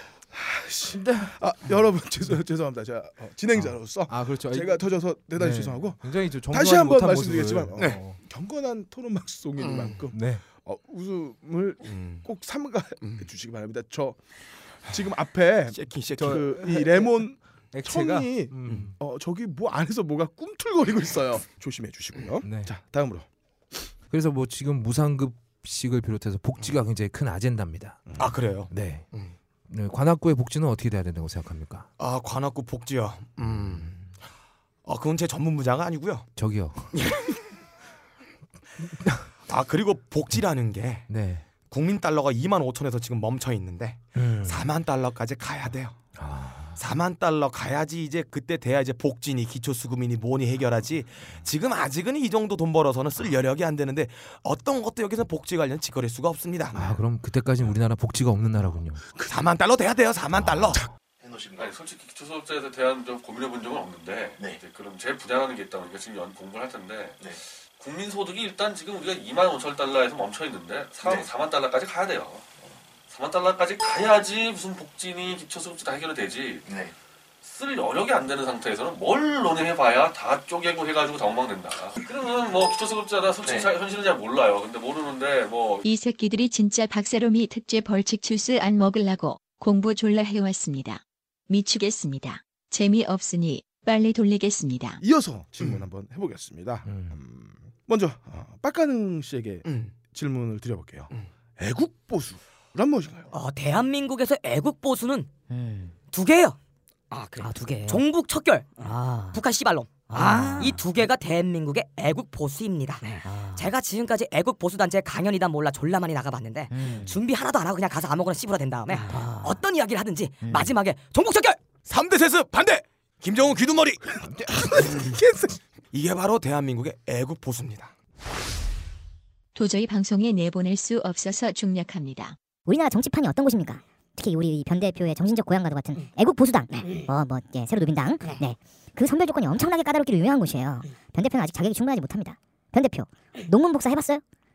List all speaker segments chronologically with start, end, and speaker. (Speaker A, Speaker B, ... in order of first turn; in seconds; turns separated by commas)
Speaker A: 0.3-14.2, Speaker B: 1.0-1.3, Speaker B: 3.6-4.8, Speaker B: 5.4-8.2, Speaker C: 9.6-10.0, Speaker B: 10.1-10.4, Speaker C: 11.9-12.2, Speaker A: 14.8-23.3, Speaker C: 15.7-16.6, Speaker B: 16.2-17.1, Speaker B: 17.7-18.9, Speaker B: 24.1-28.0, Speaker C: 28.2-29.3, Speaker B: 28.7-29.1, Speaker B: 29.7-31.9, Speaker C: 32.0-34.0, Speaker C: 34.9-36.3, Speaker B: 36.4-37.0, Speaker C: 36.9-37.4, Speaker B: 39.0-39.3, Speaker C: 39.5-41.1, Speaker B: 41.1-41.5, Speaker C: 41.7-46.0, Speaker B: 44.1-44.6, Speaker B: 46.2-46.8, Speaker C: 46.8-57.0, Speaker B: 56.7-59.0, Speaker C: 59.2-60.9, Speaker D: 61.5-72.5, Speaker D: 73.1-76.9, Speaker D: 77.4-85.8, Speaker E: 85.8-95.0, Speaker A: 95.0-103.3, Speaker B: 96.9-97.2, Speaker C: 99.7-99.9, Speaker F: 103.3-106.6, Speaker F: 107.1-121.6, Speaker G: 107.4-108.0, Speaker G: 110.1-110.8, Speaker G: 116.8-117.1, Speaker C: 121.9-124.1, Speaker A: 124.6-125.5, Speaker C: 124.7-125.1, Speaker C: 125.9-127.9, Speaker E: 129.6-132.4, Speaker G: 132.7-144.2